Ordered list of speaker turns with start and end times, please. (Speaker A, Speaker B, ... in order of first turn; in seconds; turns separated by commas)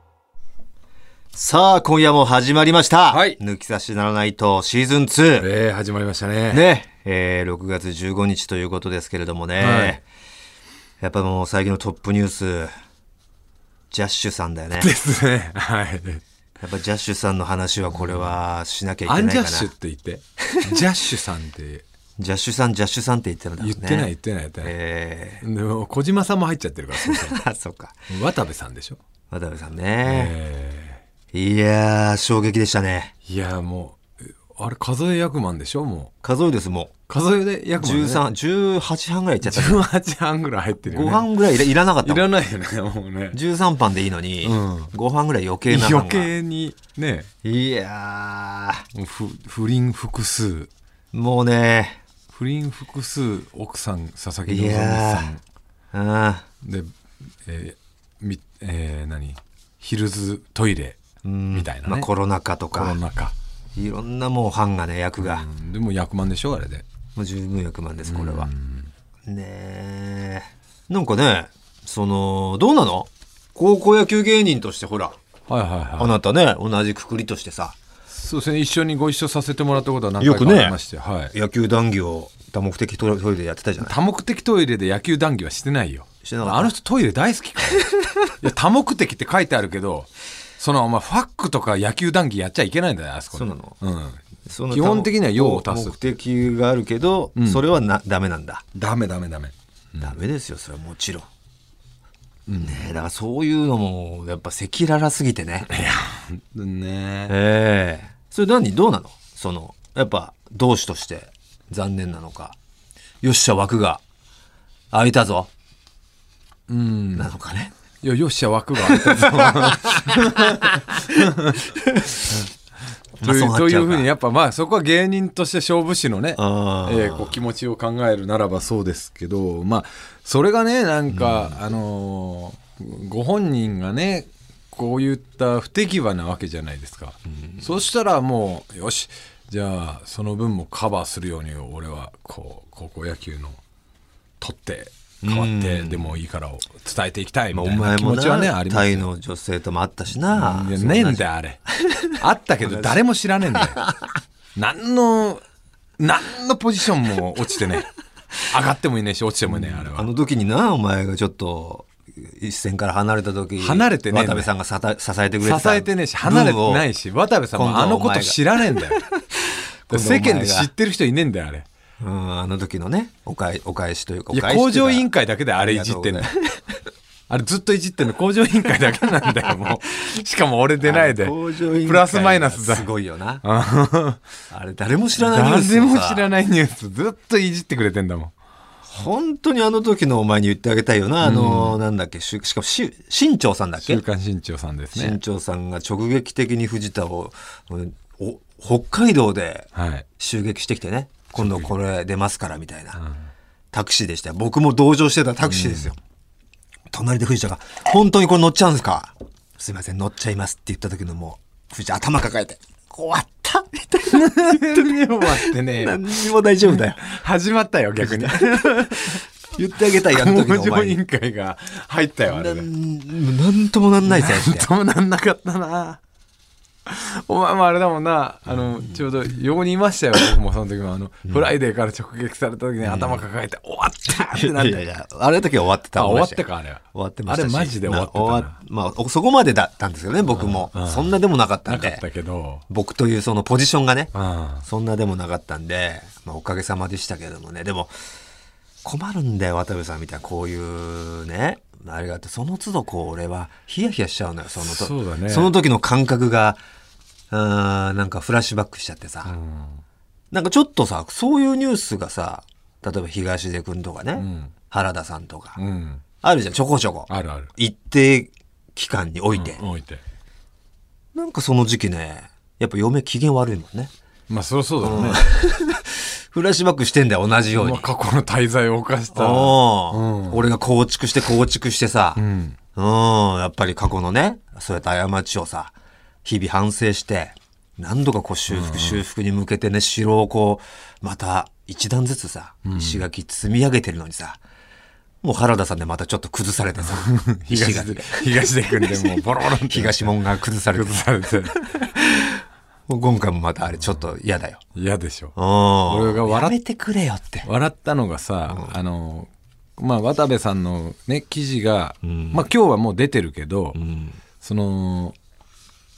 Speaker A: 1.3-5.5, Speaker B: 3.1-3.4, Speaker B: 5.4-6.7, Speaker A: 6.5-10.0, Speaker B: 9.6-10.0, Speaker A: 11.0-12.7, Speaker A: 13.9-14.9, Speaker B: 14.8-16.2, Speaker A: 16.6-19.7, Speaker B: 19.1-21.8, Speaker A: 20.4-20.8, Speaker A: 22.2-24.1, Speaker B: 23.6-24.7, Speaker A: 24.6-25.4, Speaker B: 25.4-27.4, Speaker A: 26.9-28.0, Speaker B: 28.1-29.0, Speaker A: 29.3-30.3, Speaker B: 30.1-31.0, Speaker A: 31.3-33.1, Speaker B: 33.3-36.1, Speaker A: 36.2-36.9, Speaker B: 37.1-38.2, Speaker A: 37.8-39.9, Speaker B: 39.5-41.3, Speaker A: 40.9-42.3, Speaker B: 42.0-43.4, Speaker A: 43.3-46.3, Speaker B: 44.4-44.9, Speaker B: 45.7-47.3, Speaker A: 47.4-48.8, Speaker B: 48.9-50.7, Speaker A: 51.1-52.0, Speaker B: 52.3-55.4, Speaker A: 54.5-55.3, Speaker A: 55.9-56.5, Speaker B: 56.6-56.9, Speaker B: 57.5-61.0, Speaker A: 61.2-63.0, Speaker B: 61.5-62.1, Speaker B: 62.7-63.3, Speaker A: 63.8-65.5, Speaker B: 65.2-66.8, Speaker A: 67.2-68.5, Speaker B: 68.1-68.9, Speaker A: 69.3-75.2, Speaker B: 75.5-76.1, Speaker A: 76.0-77.8, Speaker B: 78.1-81.3, Speaker A: 80.2-80.8, Speaker A: 81.3-84.0, Speaker B: 83.8-87.9, Speaker A: 86.2-86.7, Speaker A: 87.7-88.1, Speaker B: 88.4-96.0, Speaker A: 93.3-93.8, Speaker A: 94.5-98.6, Speaker B: 97.4-97.6, Speaker B: 98.8-100.2, Speaker A: 100.0-101.3, Speaker B: 102.5-102.9, Speaker A: 102.6-105.7, Speaker B: 105.7-107.3, Speaker A: 107.3-112.6, Speaker A: 113.2-114.0, Speaker A: 114.9-115.5, Speaker B: 116.7-117.3, Speaker A: 117.2-117.7, Speaker B: 118.0-121.6, Speaker A: 118.8-121.2, Speaker A: 121.8-122.3, Speaker A: 123.2-124.1, Speaker B: 123.2-143.6, Speaker A: 126.4-127.4, Speaker A: 131.1-131.6, Speaker A: 137.3-137.7, Speaker B: 144.4-149.1, Speaker A: 145.2-146.2, Speaker A: 147.5-152.1, Speaker B: 150.3-153.9, Speaker A: 152.7-153.0, Speaker A: 153.5-153.9, Speaker B: 154.6-155.4, Speaker B: 156.0-157.9, Speaker B: 158.5-160.1, Speaker A: 159.5-166.9, Speaker B: 163.6-164.5, Speaker B: 165.4-169.0, Speaker A: 167.6-170.7, Speaker B: 169.9-171.7, Speaker A: 172.0-175.1, Speaker B: 174.3-176.3, Speaker A: 175.6-176.8, Speaker B: 177.3-182.9, Speaker A: 180.8-183.4, Speaker B: 183.4-184.2, Speaker A: 184.5-186.2, Speaker B: 185.2-188.3, Speaker A: 188.9-194.0, Speaker B: 191.2-191.8, Speaker B: 193.8-195.2, Speaker A: 194.9-203.0, Speaker B: 199.8-200.1, Speaker B: 201.4-201.7, Speaker B: 202.9-203.2, Speaker A: 203.7-206.0, Speaker B: 205.5-205.9, Speaker A: 206.9-217.1, Speaker B: 214.1-216.1, Speaker B: 216.7-219.2, Speaker A: 218.0-221.0, Speaker B: 220.1-222.7, Speaker A: 222.3-224.7, Speaker B: 224.1-226.0, Speaker B: 226.9-234.8, Speaker A: 232.8-233.2, Speaker A: 234.1-242.0, Speaker B: 236.0-238.6, Speaker B: 240.3-241.1, Speaker B: 241.7-242.6, Speaker A: 242.7-247.9, Speaker B: 244.1-244.7, Speaker A: 248.8-256.6, Speaker B: 254.6-255.5, Speaker A: 257.3-259.3, Speaker B: 259.3-259.8, Speaker A: 260.3-265.6, Speaker B: 264.2-264.5, Speaker B: 265.6-266.0, Speaker A: 266.2-269.6, Speaker B: 267.1-267.5, Speaker B: 269.3-270.0, Speaker A: 271.1-273.9, Speaker B: 274.3-275.2, Speaker A: 274.8-277.9, Speaker B: 277.6-280.4, Speaker A: 279.1-282.2, Speaker B: 282.2-282.6, Speaker A: 282.8-285.7, Speaker A: 286.2-294.4, Speaker B: 288.5-289.0, Speaker B: 292.6-293.1, Speaker A: 295.2-304.6, Speaker B: 296.9-300.1, Speaker B: 300.7-301.6, Speaker B: 304.8-305.4, Speaker A: 305.4-307.5, Speaker B: 305.9-306.6, Speaker B: 307.4-313.8, Speaker A: 308.5-308.8, Speaker A: 312.0-312.4, Speaker A: 313.8-314.2, Speaker B: 314.4-315.1